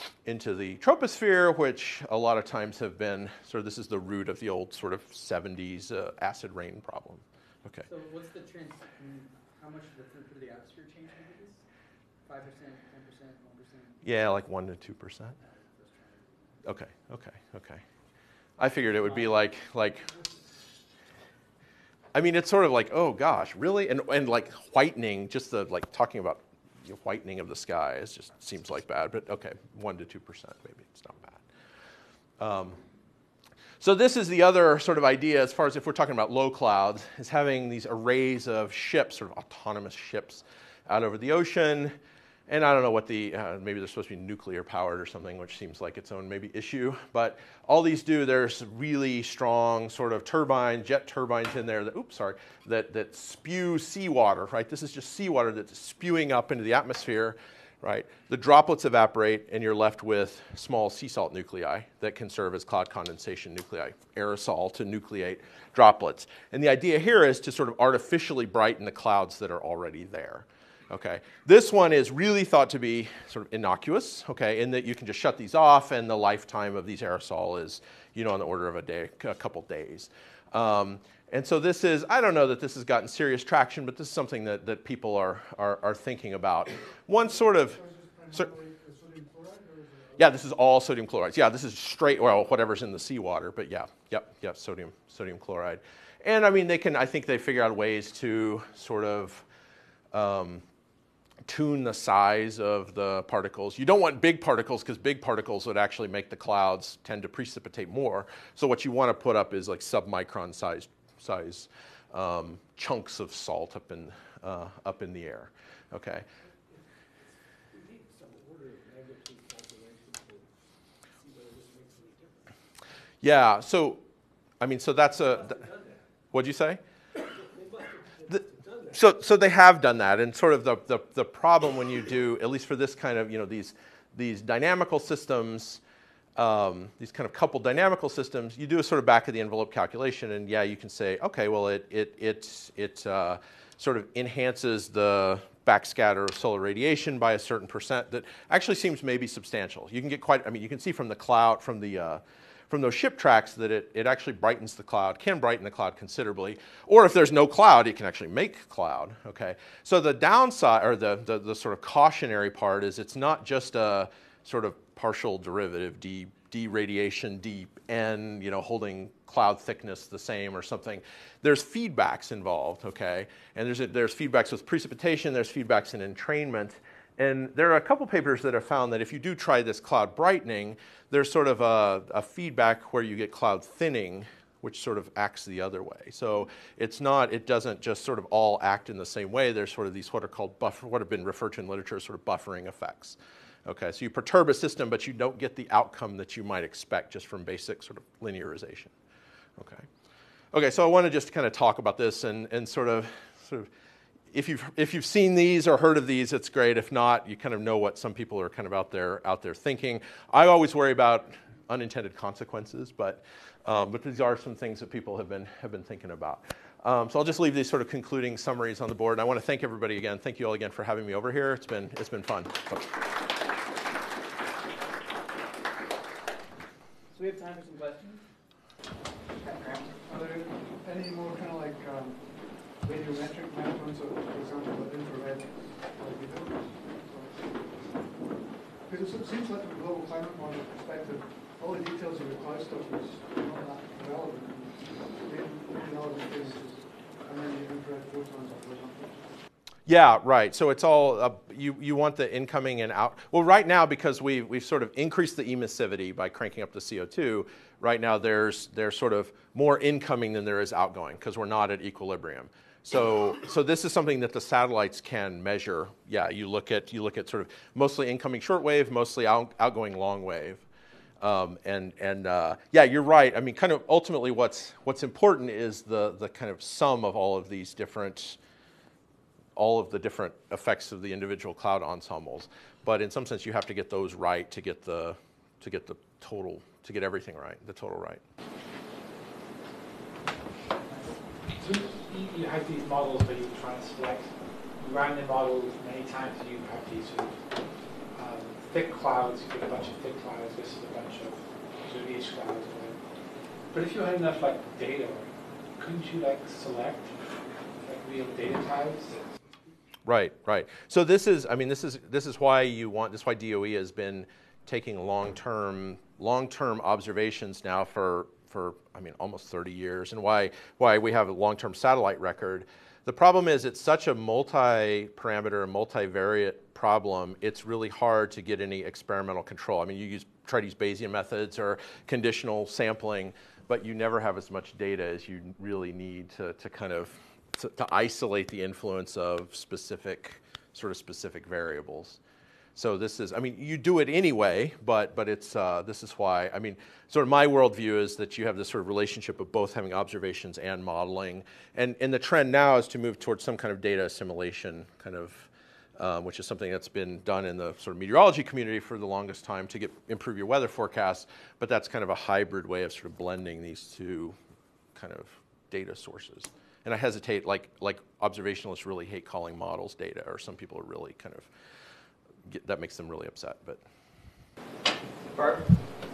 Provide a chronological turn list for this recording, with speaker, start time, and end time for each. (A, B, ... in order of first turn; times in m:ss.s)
0:00.2-0:07.8 A
0:07.9-0:11.6 B
0:12.2-0:14.0 B
0:14.0-0:15.4 A
0:15.9-0:16.2 C
0:16.6-0:17.8 A
0:18.6-0:20.1 A
0:22.1-0:31.4 A
0:32.4-0:32.8 A
0:33.8-0:42.0 A
0:42.5-1:27.8 A
1:27.1-1:30.4 D
1:30.2-1:39.4 A
1:40.1-1:40.6 A
1:41.5-1:56.2 A
1:56.4-2:00.5 C
2:01.1-2:02.6 C
2:03.2-2:04.0 A
2:04.6-2:05.6 A
2:05.1-2:06.0 C
2:06.3-2:06.8 A
2:07.1-2:09.1 C
2:08.9-2:15.8 A
2:16.4-3:18.9 A
3:19.6-3:19.9 A
3:20.5-3:23.7 A
3:24.3-3:42.9 A
3:47.1-3:48.2 B
3:49.4-3:49.9 B
3:50.0-3:57.9 D
3:58.8-4:09.3 D
4:09.9-4:30.6 A
4:31.2-4:38.4 A
4:39.6-4:48.2 A
4:51.6-4:57.4 E
4:58.1-5:03.0 E
5:03.7-5:07.2 E
5:07.8-5:09.2 E
5:10.0-5:42.2 A
5:42.7-6:04.4 A
6:04.9-6:11.5 A
6:12.5-6:13.8 A
6:15.3-6:15.6 B